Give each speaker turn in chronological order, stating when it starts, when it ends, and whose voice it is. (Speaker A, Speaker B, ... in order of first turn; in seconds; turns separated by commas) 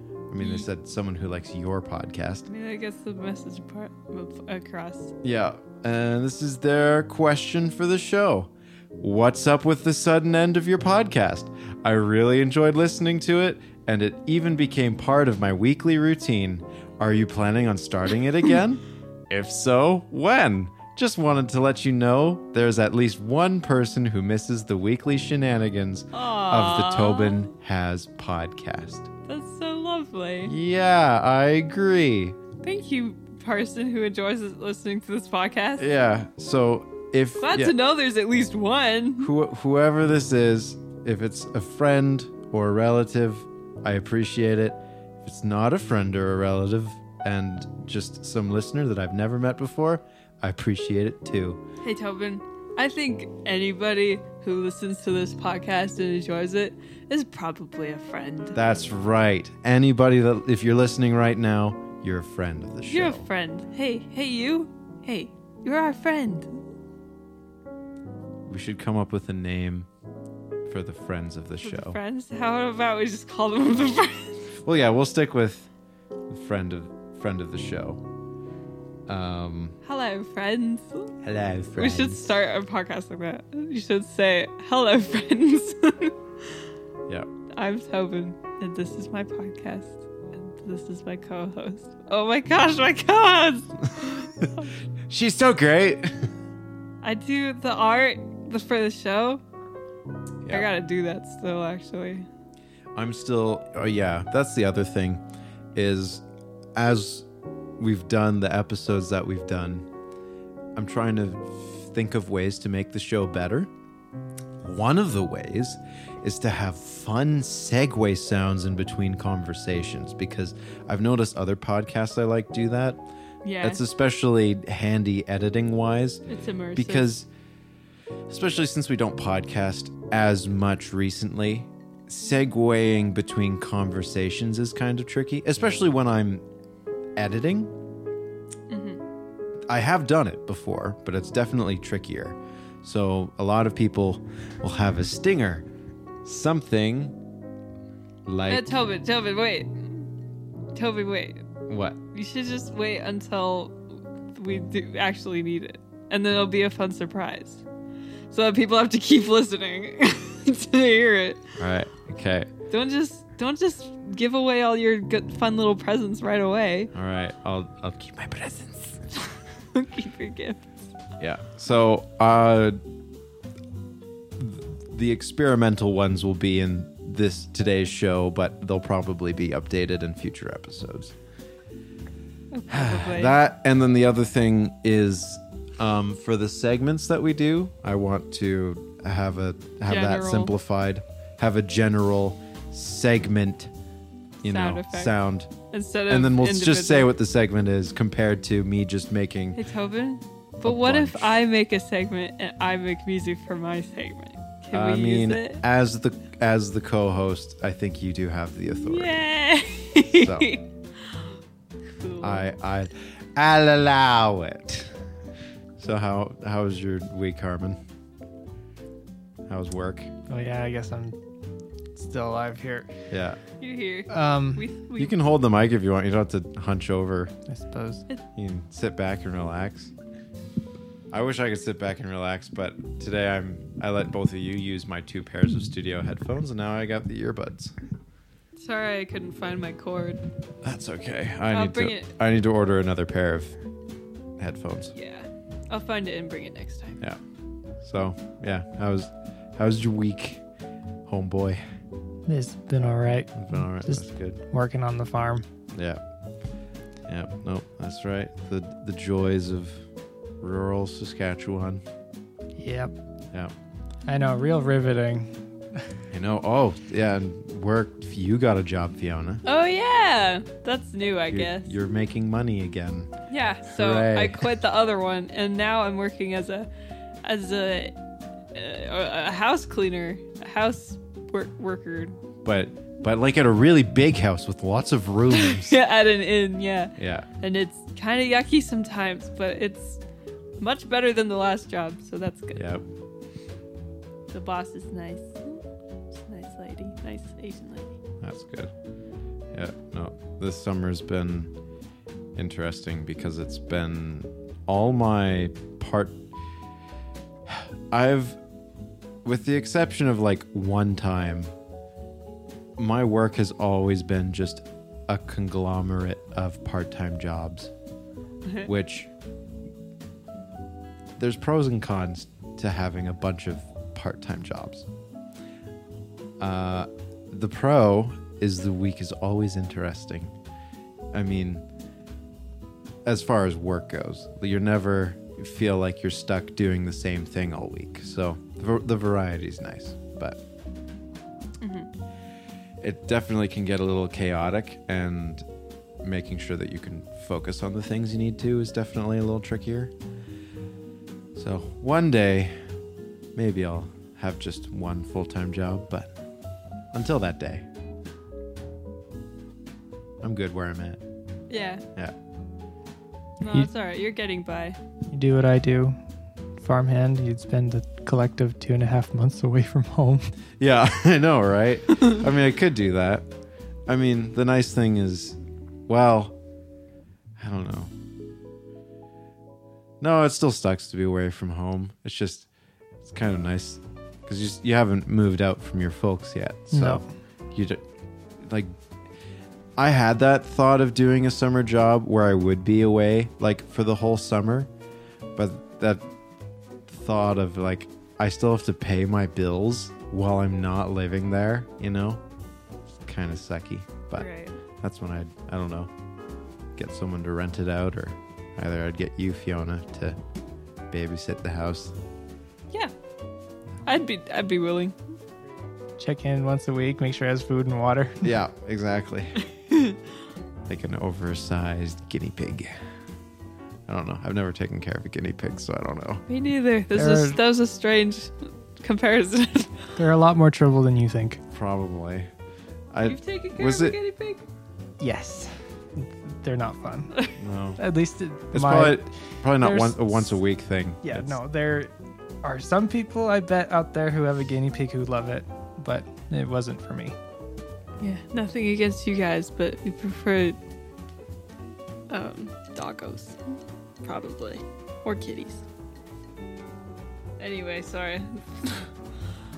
Speaker A: 0.3-2.5, Speaker B: 0.4-0.7, Speaker B: 2.5-5.1, Speaker A: 5.2-29.1, Speaker B: 26.1-27.5, Speaker B: 29.3-30.5, Speaker A: 30.4-32.4, Speaker B: 32.6-35.9, Speaker A: 35.8-37.8, Speaker B: 37.4-39.3, Speaker A: 39.2-51.6, Speaker B: 51.8-58.6, Speaker A: 58.5-63.2, Speaker B: 62.9-66.6, Speaker A: 68.5-69.9, Speaker A: 70.7-72.0, Speaker B: 71.6-74.4, Speaker A: 74.7-75.7, Speaker A: 76.3-78.0, Speaker A: 79.1-79.8, Speaker B: 79.8-81.1, Speaker A: 81.2-82.3, Speaker B: 81.8-86.2, Speaker B: 87.5-94.7, Speaker A: 95.1-96.1, Speaker B: 97.0-99.4, Speaker B: 100.5-102.3, Speaker A: 103.0-105.2, Speaker A: 105.8-106.2, Speaker A: 106.8-107.3, Speaker A: 107.8-109.9, Speaker A: 110.8-113.7, Speaker A: 114.6-123.0, Speaker B: 123.4-123.8, Speaker A: 123.6-127.3, Speaker B: 126.3-127.2, Speaker A: 128.3-136.4, Speaker A: 137.2-137.7, Speaker B: 138.7-139.0, Speaker A: 139.7-145.7, Speaker A: 146.2-147.2, Speaker A: 148.3-148.7, Speaker B: 148.5-150.1, Speaker B: 150.8-151.4, Speaker A: 151.7-152.0, Speaker B: 152.1-153.8, Speaker B: 154.3-157.6, Speaker B: 158.3-161.4, Speaker A: 161.6-162.5, Speaker B: 162.7-166.9, Speaker A: 166.9-169.0, Speaker B: 169.2-170.7, Speaker A: 171.2-172.8, Speaker A: 174.4-181.2, Speaker B: 182.5-183.4, Speaker A: 182.7-193.7, Speaker B: 189.9-190.5, Speaker B: 194.4-195.2, Speaker A: 194.4-195.5, Speaker B: 195.7-197.2, Speaker A: 196.1-199.6, Speaker B: 199.6-205.6, Speaker A: 200.6-201.4, Speaker A: 204.7-209.2, Speaker B: 208.7-210.6, Speaker A: 210.1-210.6, Speaker B: 212.0-212.4, Speaker A: 212.2-214.9, Speaker A: 215.8-217.8, Speaker A: 219.5-220.1, Speaker C: 220.3-221.2, Speaker C: 221.9-222.9, Speaker A: 223.1-223.4, Speaker B: 223.6-225.2, Speaker C: 224.1-224.7, Speaker A: 225.0-227.3, Speaker C: 227.5-228.0, Speaker A: 228.4-229.9, Speaker A: 231.1-237.8, Speaker B: 238.6-240.2, Speaker A: 240.6-243.6, Speaker B: 241.5-242.1, Speaker A: 244.4-244.9, Speaker B: 244.9-247.0, Speaker A: 247.8-250.4, Speaker A: 251.1-251.6, Speaker C: 252.3-255.5, Speaker A: 253.3-254.4, Speaker A: 255.7-256.0, Speaker A: 257.1-259.8, Speaker A: 260.4-261.8, Speaker C: 262.6-262.9, Speaker C: 264.1-265.3, Speaker A: 266.1-269.4, Speaker B: 269.5-271.7, Speaker A: 271.3-273.1, Speaker B: 273.3-276.7, Speaker A: 273.7-274.5, Speaker B: 277.2-277.9, Speaker B: 278.5-282.2, Speaker A: 282.4-285.8, Speaker B: 285.3-290.0, Speaker A: 287.0-287.3, Speaker B: 290.6-292.6, Speaker A: 292.6-292.8, Speaker B: 294.3-297.9, Speaker A: 298.2-298.7, Speaker A: 299.5-301.5, Speaker A: 302.4-306.2, Speaker A: 307.5-308.4, Speaker A: 309.2-311.5, Speaker A: 312.8-317.7, Speaker A: 318.6-319.1, Speaker A: 321.2-324.9, Speaker A: 326.4-330.3, Speaker A: 331.1-331.6, Speaker A: 333.1-340.4, Speaker B: 341.6-341.9, Speaker A: 342.8-345.5, Speaker A: 346.0-349.9, Speaker A: 351.4-352.6, Speaker A: 353.4-356.1, Speaker A: 356.9-357.7, Speaker A: 360.2-361.0, Speaker B: 361.5-361.8, Speaker B: 363.4-364.8, Speaker C: 365.1-366.0, Speaker C: 366.6-370.3, Speaker A: 370.6-373.3, Speaker A: 373.9-376.4, Speaker A: 377.4-377.9, Speaker A: 380.0-382.5, Speaker A: 383.0-387.8, Speaker C: 386.7-387.1, Speaker A: 388.4-388.8, Speaker A: 389.8-394.7, Speaker A: 395.4-396.1, Speaker A: 396.9-402.2, Speaker A: 403.1-404.3, Speaker B: 404.1-404.6, Speaker A: 404.8-405.9, Speaker A: 406.8-410.2, Speaker A: 410.9-411.9, Speaker B: 413.9-414.9, Speaker C: 416.0-418.3, Speaker A: 418.2-419.4, Speaker B: 419.7-420.0, Speaker A: 420.7-422.8, Speaker A: 423.9-426.2, Speaker B: 426.3-429.9, Speaker C: 426.9-427.4, Speaker C: 430.0-431.4, Speaker A: 431.5-432.3, Speaker A: 432.9-434.0, Speaker B: 433.0-434.4, Speaker C: 435.0-437.1, Speaker A: 437.4-437.8, Speaker C: 437.8-440.0, Speaker A: 438.5-441.4, Speaker C: 441.0-441.9, Speaker C: 442.4-447.2, Speaker B: 448.0-450.6, Speaker B: 452.1-455.6, Speaker B: 457.4-458.9